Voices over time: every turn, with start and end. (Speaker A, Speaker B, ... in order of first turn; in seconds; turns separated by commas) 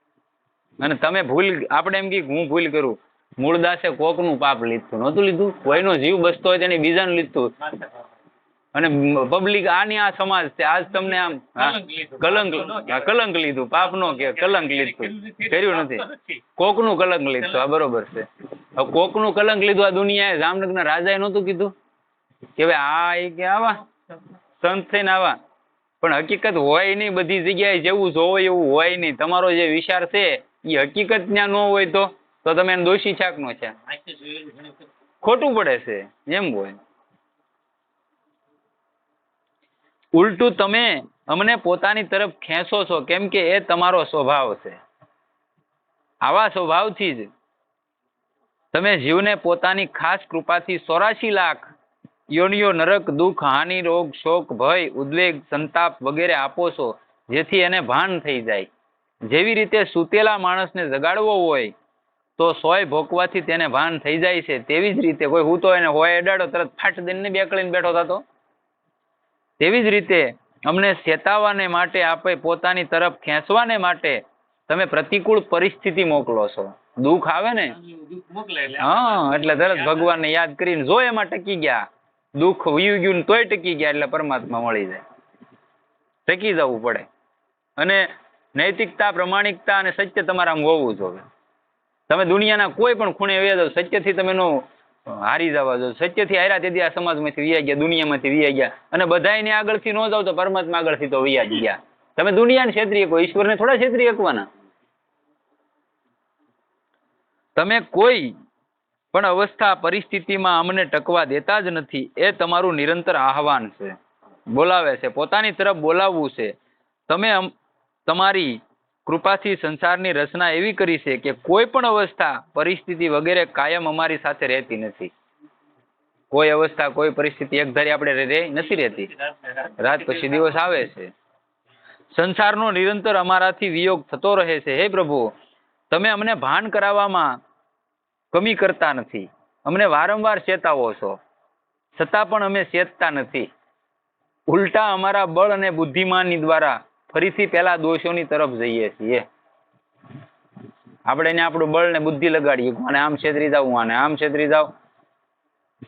Speaker A: 0.8-7.5, Speaker B: 7.6-8.0, Speaker A: 8.7-21.7, Speaker B: 11.6-13.1, Speaker B: 13.9-16.4, Speaker A: 22.6-23.8, Speaker A: 24.6-25.4, Speaker A: 26.0-33.7, Speaker B: 33.9-34.9, Speaker A: 35.2-36.8, Speaker A: 40.1-44.8, Speaker A: 46.2-47.3, Speaker A: 48.7-51.7, Speaker A: 52.3-58.7, Speaker A: 59.3-61.7, Speaker A: 62.4-68.2, Speaker A: 69.6-77.8, Speaker B: 77.7-80.1, Speaker A: 78.8-81.8, Speaker A: 82.3-85.0, Speaker A: 86.3-87.0, Speaker A: 87.8-91.2, Speaker A: 92.1-104.5, Speaker A: 107.5-108.3, Speaker A: 109.1-114.0, Speaker A: 114.5-116.5, Speaker A: 117.1-117.5, Speaker A: 118.0-125.1, Speaker A: 126.3-129.1, Speaker B: 129.0-130.3, Speaker A: 129.8-131.1, Speaker A: 132.1-135.3, Speaker A: 135.9-137.4, Speaker A: 138.3-141.2, Speaker A: 141.9-143.5, Speaker A: 144.5-149.2, Speaker A: 151.1-154.7